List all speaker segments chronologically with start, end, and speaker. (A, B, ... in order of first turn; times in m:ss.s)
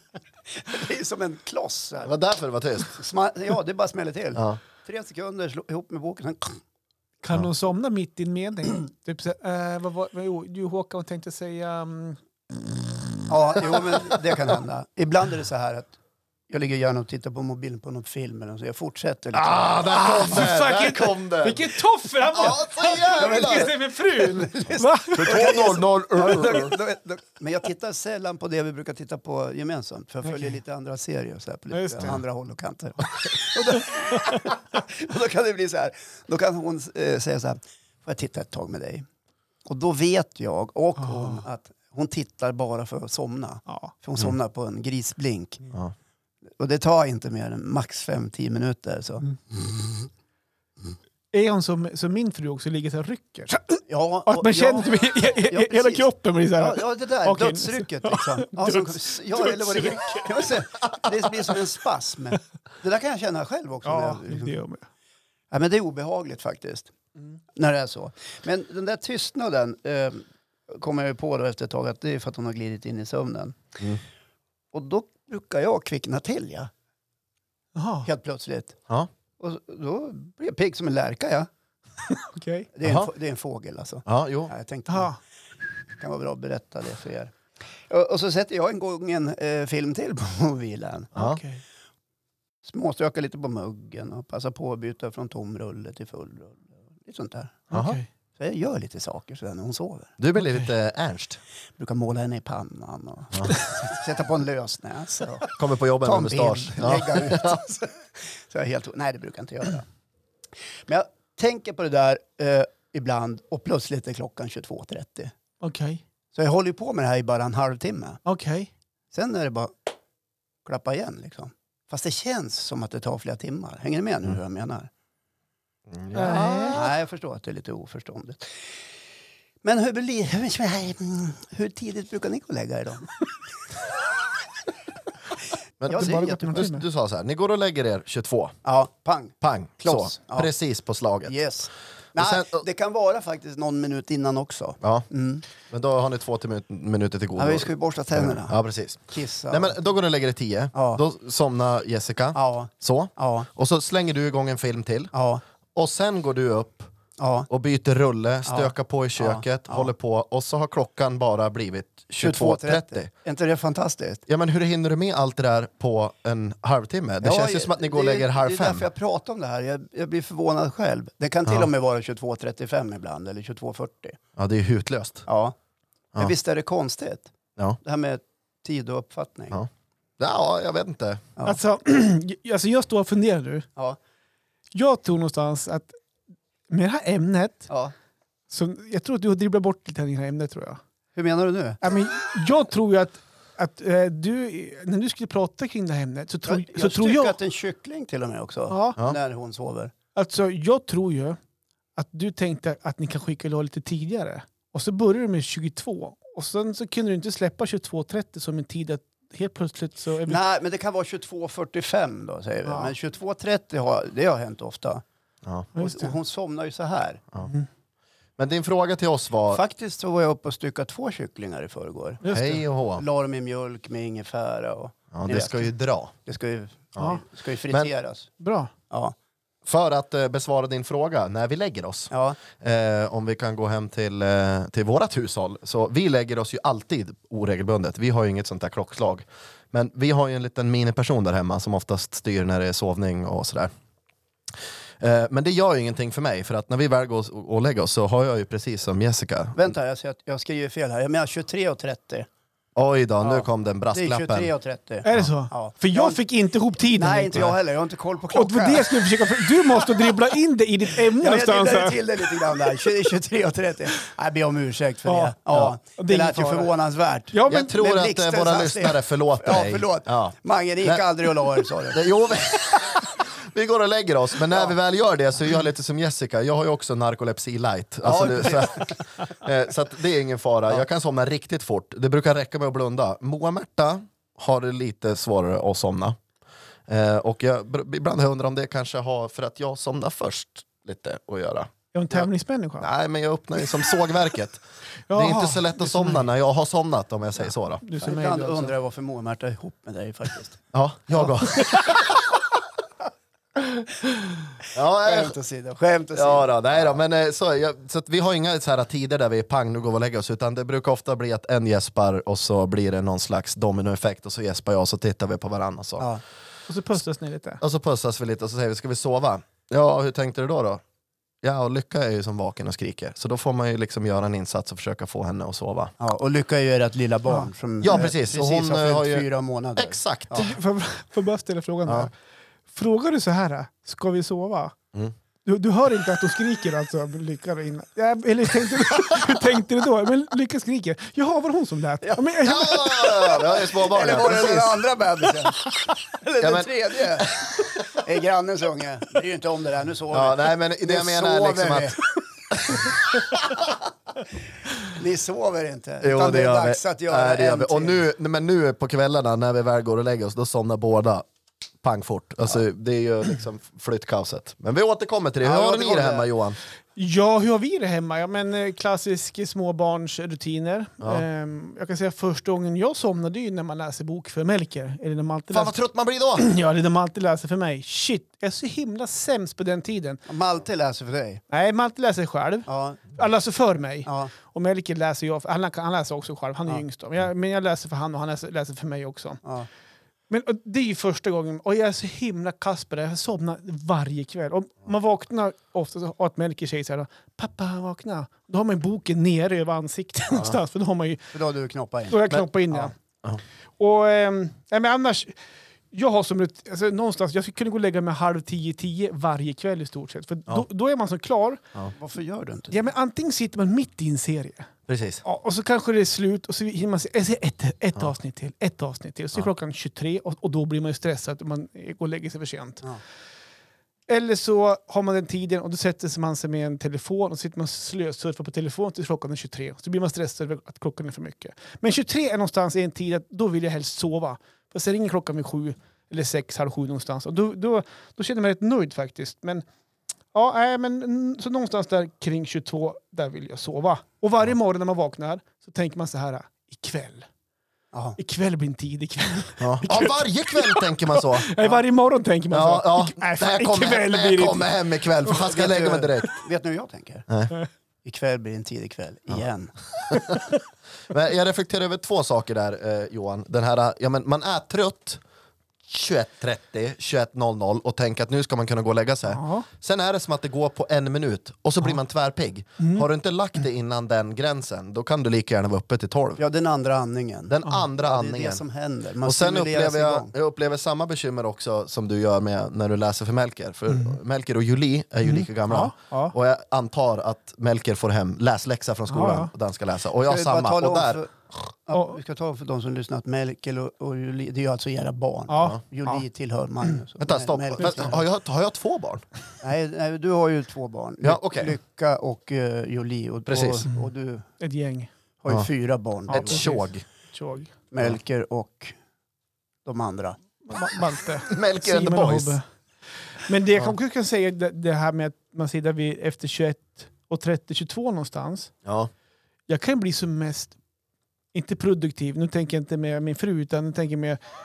0:00.5-0:02.1 A
0:02.0-0:03.0 B
0:02.8-0:06.6 A
0:07.2-0:12.2 C
0:13.3-0:16.0 A
0:16.5-0:19.8 A
0:19.3-0:23.7 B
0:19.8-0:25.5 C
0:22.5-0:39.0 A
0:25.1-0:26.8 B
0:30.3-0:30.5 C
0:31.7-0:32.1 C
0:39.7-0:45.6 A
0:41.0-0:41.4 C
0:46.6-0:49.8 A
0:51.3-1:00.6 C
0:53.9-1:04.6 A
1:03.8-1:04.8 C
1:05.5-1:06.9 A
1:07.6-1:13.8 A
1:14.7-1:16.7 A
1:17.8-1:18.1 C
1:18.0-1:18.8 A
1:19.4-1:21.5 A
1:22.1-1:22.7 C
1:22.7-1:25.1 A
1:22.8-1:23.1 B
1:24.1-1:24.5 B
1:24.9-1:25.2 C
1:26.0-1:27.4 A
1:27.9-1:31.1 A
1:31.2-1:31.6 C
1:31.2-1:31.4 B
1:32.6-1:37.7 A
1:37.7-1:38.1 C
1:37.7-1:38.0 B
1:38.4-1:40.2 A
1:40.2-1:41.4 B
1:41.8-1:49.9 A
1:45.6-1:47.6 B
1:50.9-1:55.3 A
1:55.6-1:56.0 C
1:56.3-1:58.2 A
1:58.2-1:58.7 C
1:59.1-1:59.7 A
2:00.6-2:04.9 A
2:05.9-2:06.9 B
2:06.2-2:06.9 C
2:06.7-2:08.6 A
2:09.6-2:13.2 A
2:15.8-2:18.6 B
2:15.9-2:16.6 A
2:15.9-2:16.8 C
2:18.6-2:20.5 A
2:19.4-2:21.3 B
2:21.3-2:25.4 A
2:22.2-2:22.6 B
2:25.6-2:35.1 B
2:27.4-2:28.6 A
2:29.1-2:29.8 A
2:30.7-2:31.0 A
2:32.3-2:33.5 A
2:35.1-2:35.4 A
2:35.8-2:36.9 B
2:37.2-2:37.5 A
2:37.5-2:43.1 B
2:38.4-2:39.9 A
2:42.2-2:44.2 A
2:44.3-2:48.8 B
2:47.2-2:54.2 A
2:54.4-2:55.2 B
2:55.3-2:55.6 A
2:56.2-2:59.6 A
3:00.2-3:01.2 B
3:01.4-3:03.7 C
3:04.7-3:05.9 C
3:06.7-3:07.7 C
3:08.5-3:10.8 C
3:11.2-3:11.8 A
3:11.8-3:17.4 C
3:16.4-3:19.9 A
3:18.7-3:19.0 C
3:20.2-3:21.4 C
3:22.0-3:30.4 C
3:30.3-3:35.0 A
3:32.7-3:32.9 C
3:35.8-3:36.2 C
3:35.8-3:37.2 A
3:38.4-3:39.6 B
3:39.5-3:42.2 A
3:42.2-3:42.6 C
3:42.3-3:43.0 B
3:42.9-3:45.7 A
3:45.1-3:46.1 B
3:46.2-3:48.3 A
3:48.4-3:48.7 C
3:48.9-3:49.2 A
3:49.6-4:03.7 B
3:52.1-3:52.4 A
4:05.0-4:09.6 B
4:09.6-4:12.3 A
4:12.8-4:14.5 B
4:13.2-4:16.2 A
4:15.0-4:17.5 C
4:16.9-4:20.3 A
4:18.3-4:22.6 C
4:21.0-4:32.1 A
4:25.1-4:25.4 C
4:25.9-4:26.7 C
4:27.3-4:27.7 C
4:27.5-4:31.0 B
4:31.9-4:46.2 B
4:38.0-4:39.0 A
4:46.9-4:52.3 B
4:51.9-4:52.9 C
4:52.8-4:57.8 B
4:55.1-4:56.2 C
4:57.8-4:58.7 C
4:58.0-5:00.6 A
5:00.7-5:02.2 B
5:04.7-5:05.4 B
5:05.0-5:07.0 A
5:06.2-5:16.1 B
5:16.7-5:17.6 C
5:17.6-5:20.8 B
5:21.4-5:25.9 B
5:26.0-5:30.5 A
5:27.8-5:29.3 B
5:29.8-5:30.5 B
5:30.3-5:32.1 C
5:32.7-5:34.8 C
5:35.4-5:43.2 C
5:42.4-5:44.8 B
5:43.0-5:52.0 A
5:46.4-5:47.7 B
5:50.1-5:52.0 B
5:52.5-5:53.4 B
5:54.8-5:58.0 A
5:56.0-6:01.2 B
6:01.8-6:06.6 B
6:05.4-6:06.3 A
6:07.0-6:15.8 C
6:15.5-6:16.5 B
6:16.4-6:20.2 C
6:20.3-6:21.4 A
6:21.5-6:29.4 C
6:22.7-6:23.0 A
6:24.1-6:24.3 A
6:30.3-6:41.3 C
6:41.3-6:42.9 A
6:42.1-6:42.9 C
6:43.8-6:45.4 C
6:45.9-6:51.6 C
6:52.0-6:52.8 A
6:52.7-6:54.7 C
6:54.9-6:55.2 B
6:55.2-7:02.8 C
7:04.1-7:19.6 C
7:20.3-7:27.3 C
7:27.9-7:28.2 A
7:28.2-7:34.7 C
7:29.6-7:31.5 B
7:32.5-7:36.3 B
7:35.3-7:37.3 A
7:37.3-7:37.5 B
7:38.0-7:39.8 A
7:40.1-7:40.4 B
7:41.1-7:45.2 B
7:45.9-7:56.4 B
7:49.3-7:49.7 C
7:52.8-7:53.1 C
7:56.4-8:00.3 A
7:57.5-7:58.6 B
7:59.2-8:11.2 B
8:05.2-8:06.3 C
8:09.1-8:09.5 C
8:10.2-8:18.2 A
8:11.9-8:12.2 C
8:15.5-8:16.2 C
8:17.2-8:19.2 B
8:19.6-8:24.5 A
8:21.2-8:21.7 B
8:23.5-8:23.8 B
8:24.6-8:25.1 C
8:25.4-8:26.7 A
8:26.3-8:27.7 C
8:26.3-8:27.0 B
8:27.9-8:29.0 A
8:29.8-8:30.4 A
8:30.7-8:32.6 C
8:31.5-8:32.6 B
8:33.4-8:38.7 C
8:38.8-8:39.1 B
8:39.7-8:40.8 C
8:41.5-8:44.4 C